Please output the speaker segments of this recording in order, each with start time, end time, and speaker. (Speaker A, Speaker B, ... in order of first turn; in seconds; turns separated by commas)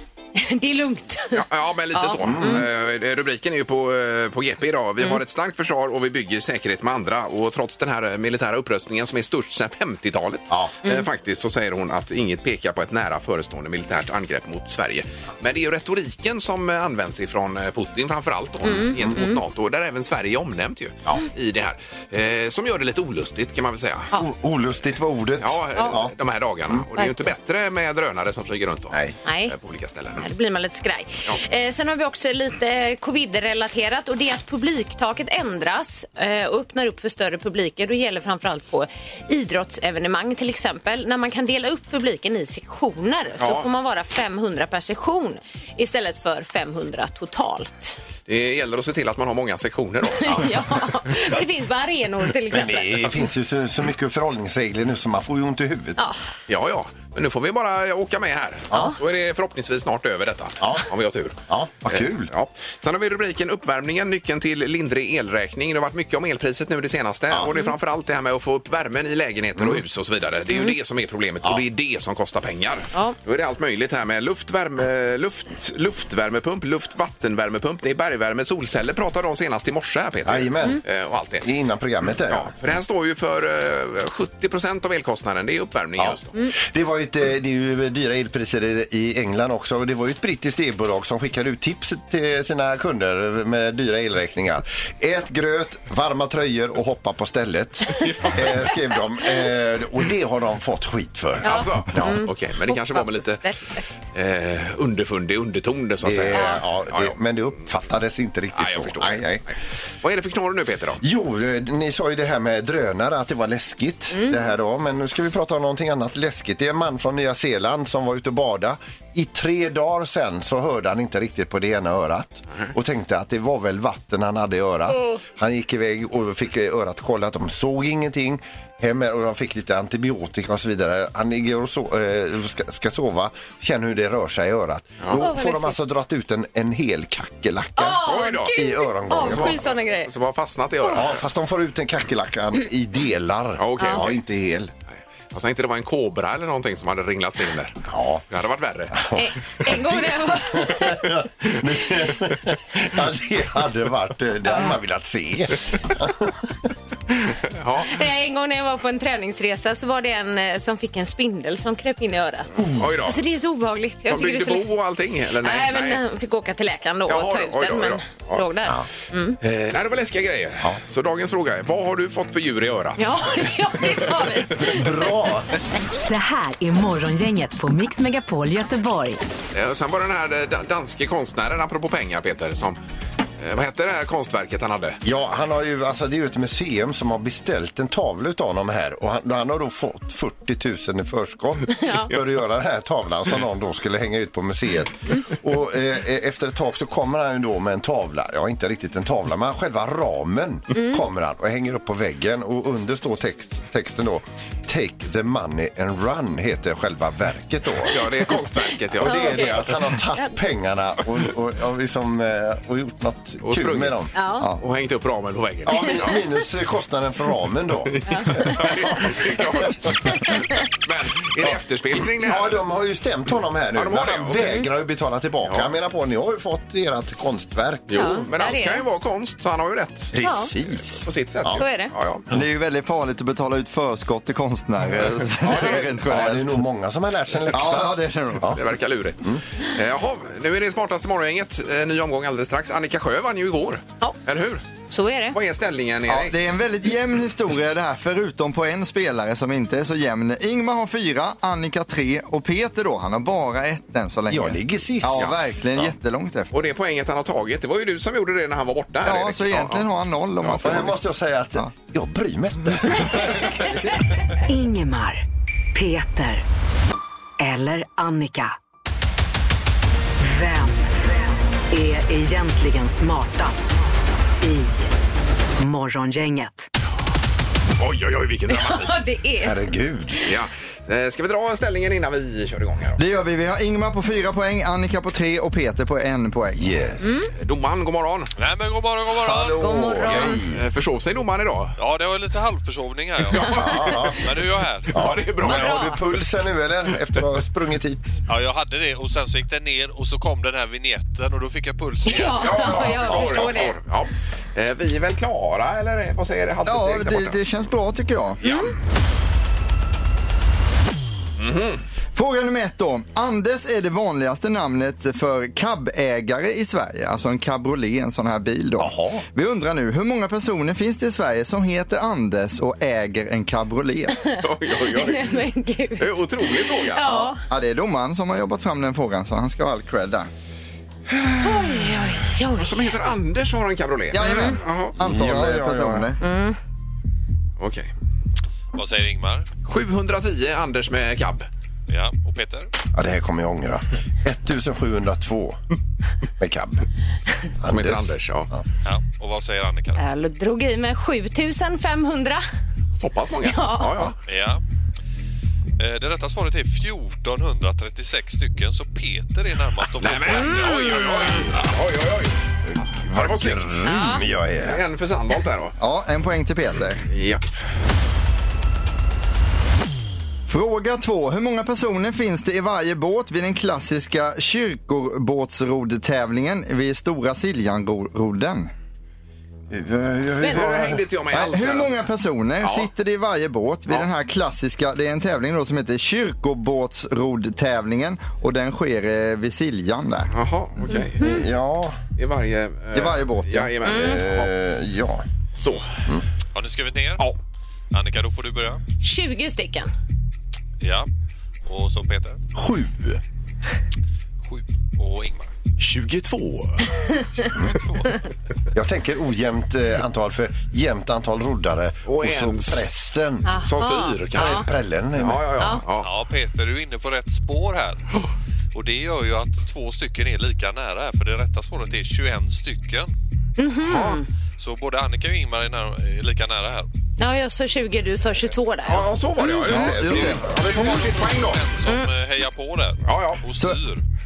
Speaker A: 0.3-2.6, Speaker B: 1.3-24.1, Speaker C: 2.2-2.6, Speaker A: 18.6-19.4, Speaker C: 24.1-26.1, Speaker B: 25.4-30.2, Speaker A: 29.2-29.5, Speaker A: 30.2-48.0, Speaker B: 43.4-43.7, Speaker B: 48.3-50.5, Speaker A: 50.2-53.0, Speaker C: 52.5-56.0, Speaker B: 56.5-81.5, Speaker C: 60.6-60.9, Speaker C: 61.5-62.3, Speaker C: 69.6-69.8, Speaker C: 80.2-80.8, Speaker C: 81.4-82.5, Speaker B: 82.3-86.3, Speaker C: 86.0-102.2, Speaker A: 101.4-103.9, Speaker B: 101.4-103.4, Speaker B: 104.1-107.2, Speaker C: 106.0-109.4, Speaker A: 106.3-106.6, Speaker B: 108.5-111.0, Speaker C: 111.0-139.6, Speaker A: 135.1-135.8, Speaker A: 137.8-140.1, Speaker B: 138.0-138.6, Speaker B: 139.1-141.2, Speaker C: 140.9-144.7, Speaker B: 143.6-144.2, Speaker A: 143.8-144.1, Speaker B: 145.3-149.0, Speaker C: 147.9-148.2, Speaker C: 148.9-156.7, Speaker A: 149.1-151.1, Speaker A: 154.4-154.7, Speaker B: 157.1-158.0, Speaker A: 157.8-164.7, Speaker C: 162.6-162.9, Speaker B: 162.7-163.2, Speaker B: 164.1-166.0, Speaker A: 165.4-169.4, Speaker B: 167.1-168.5, Speaker B: 169.4-173.5, Speaker A: 173.0-175.1, Speaker C: 174.6-175.5, Speaker D: 176.0-179.2, Speaker B: 179.5-182.8, Speaker B: 183.4-185.0, Speaker C: 185.0-208.1, Speaker A: 191.7-192.1, Speaker A: 200.7-201.0, Speaker B: 207.9-209.7, Speaker C: 208.9-214.1, Speaker A: 209.0-210.3, Speaker B: 213.4-214.1, Speaker A: 214.1-214.5, Speaker B: 214.6-216.2, Speaker C: 215.6-219.9, Speaker B: 217.9-222.6, Speaker A: 218.1-218.7, Speaker A: 220.1-220.4, Speaker C: 222.2-228.2, Speaker B: 223.7-224.7, Speaker B: 225.4-225.7, Speaker B: 227.9-230.2, Speaker A: 227.9-228.8, Speaker C: 230.1-231.6, Speaker A: 230.2-230.5, Speaker B: 230.9-232.2, Speaker A: 231.6-231.9, Speaker E: 232.3-236.6, Speaker C: 235.4-238.6, Speaker E: 237.5-238.6, Speaker B: 238.5-244.6, Speaker A: 244.9-245.3, Speaker B: 245.3-246.3, Speaker E: 246.1-256.5, Speaker C: 254.3-255.3, Speaker B: 256.5-259.9, Speaker E: 259.0-261.0, Speaker B: 260.4-260.9, Speaker C: 260.6-264.1, Speaker D: 264.5-265.2, Speaker D: 265.7-266.4, Speaker D: 267.4-268.5, Speaker D: 270.2-273.8, Speaker D: 274.3-274.9, Speaker D: 275.6-276.7, Speaker B: 277.8-279.0, Speaker A: 278.5-279.8, Speaker C: 279.4-280.2, Speaker B: 280.2-283.0, Speaker E: 283.0-286.7, Speaker C: 286.6-287.0, Speaker A: 287.0-287.3, Speaker B: 287.3-288.3, Speaker F: 288.4-289.8, Speaker C: 289.1-290.6, Speaker A: 289.6-290.4, Speaker B: 290.0-291.8, Speaker F: 291.8-295.1, Speaker C: 293.5-294.4, Speaker B: 294.9-296.0, Speaker C: 294.9-298.2, Speaker A: 295.4-296.0, Speaker F: 298.3-303.3, Speaker A: 302.0-303.8, Speaker B: 302.4-307.4, Speaker E: 306.6-308.4, Speaker A: 308.4-308.7, Speaker B: 308.4-308.7, Speaker B: 311.4-311.8, Speaker E: 312.1-324.2, Speaker C: 318.8-319.2, Speaker A: 324.2-327.4, Speaker B: 324.4-325.4, Speaker B: 326.0-327.3, Speaker E: 327.5-330.3, Speaker B: 331.1-334.9, Speaker A: 331.4-332.9, Speaker E: 334.1-336.2, Speaker A: 334.2-334.6, Speaker C: 335.0-336.1, Speaker A: 336.2-336.6, Speaker B: 337.6-337.9, Speaker F: 338.7-339.5, Speaker B: 339.6-341.5, Speaker F: 341.9-342.7, Speaker C: 342.9-345.6, Speaker C: 346.4-346.8, Speaker C: 347.6-348.6, Speaker B: 347.6-348.5, Speaker F: 348.8-350.0, Speaker A: 349.9-352.4, Speaker B: 353.0-354.2, Speaker A: 353.4-354.1, Speaker F: 354.3-354.6, Speaker F: 355.8-360.9, Speaker B: 360.0-362.4, Speaker A: 360.3-361.4, Speaker C: 362.7-364.8, Speaker B: 363.1-365.7, Speaker A: 363.8-364.2, Speaker E: 365.8-367.0, Speaker B: 367.1-367.7, Speaker E: 370.5-378.7, Speaker C: 379.7-381.1, Speaker B: 380.4-382.0, Speaker E: 381.3-390.3, Speaker B: 382.6-382.9, Speaker B: 390.3-391.4, Speaker A: 390.9-391.4, Speaker C: 391.2-392.0, Speaker B: 392.2-394.5, Speaker E: 392.9-393.7, Speaker C: 393.8-395.2, Speaker A: 393.8-394.2, Speaker B: 395.6-395.9, Speaker F: 396.5-397.2, Speaker F: 397.9-398.8, Speaker A: 399.0-399.9, Speaker F: 400.8-401.1, Speaker F: 401.6-402.4, Speaker C: 402.5-403.2, Speaker F: 404.4-405.5, Speaker B: 405.8-406.9, Speaker F: 407.4-408.2, Speaker C: 407.5-407.8, Speaker C: 408.7-413.6, Speaker B: 412.1-412.9, Speaker A: 413.4-414.6, Speaker B: 413.5-416.1, Speaker C: 414.3-415.4, Speaker F: 416.0-418.0, Speaker F: 418.7-423.1, Speaker A: 423.6-424.2, Speaker B: 423.9-424.2, Speaker F: 424.6-426.9, Speaker A: 427.2-429.6, Speaker B: 428.9-431.6, Speaker E: 429.6-430.6, Speaker C: 429.7-430.4, Speaker F: 430.1-434.0, Speaker B: 433.1-433.4